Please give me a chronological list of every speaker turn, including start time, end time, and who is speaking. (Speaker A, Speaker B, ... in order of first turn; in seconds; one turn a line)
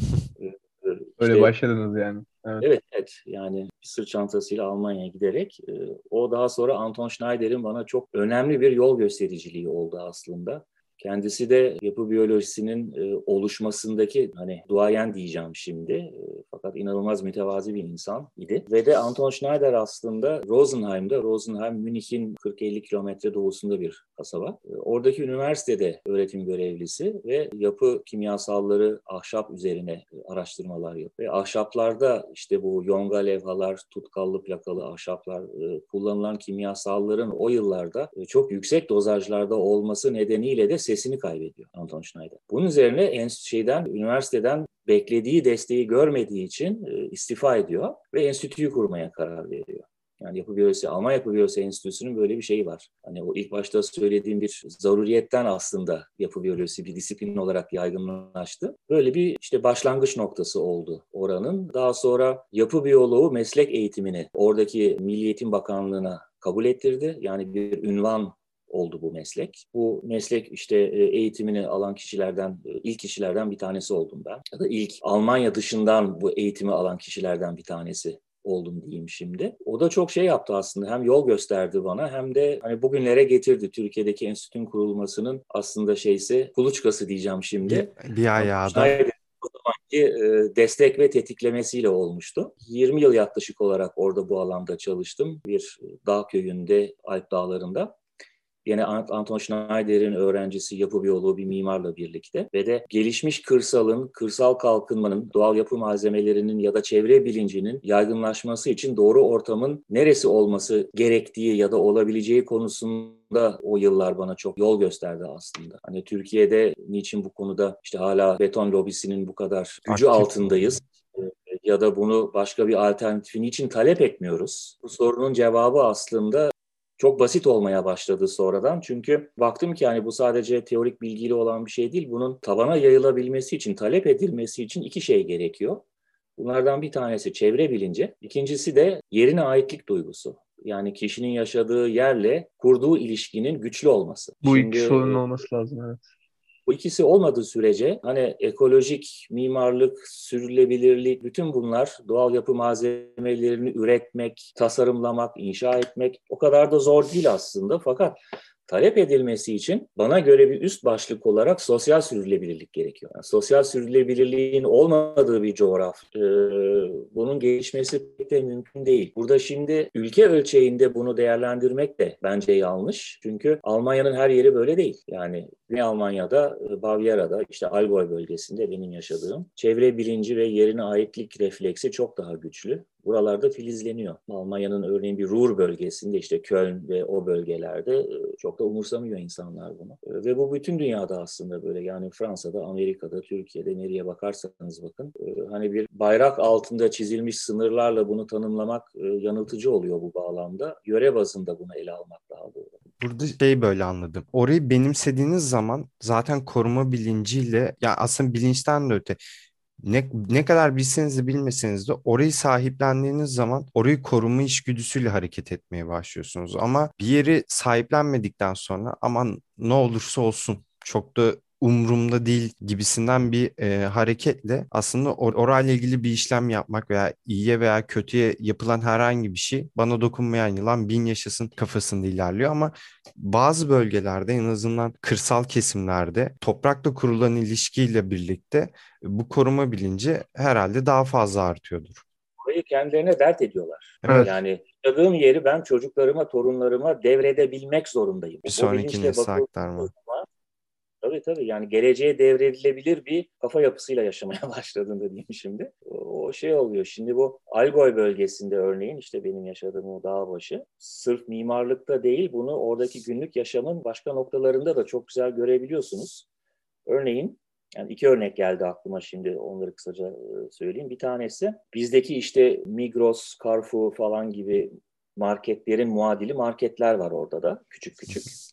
Speaker A: 0.4-1.5
Speaker B: 1.2-2.6
Speaker A: 2.6-98.0
Speaker C: 87.7-89.0
Speaker A: 98.6-135.8
Speaker C: 119.9-120.3
Speaker A: 136.4-145.2
Speaker B: 144.4-146.0
Speaker A: 146.7-202.8
Speaker C: 203.0-209.2
Speaker C: 209.8-242.0
Speaker A: 242.4-250.3
Speaker C: 244.0-244.3
Speaker C: 248.4-249.9
Speaker A: 251.0-266.2
Speaker A: 266.9-278.3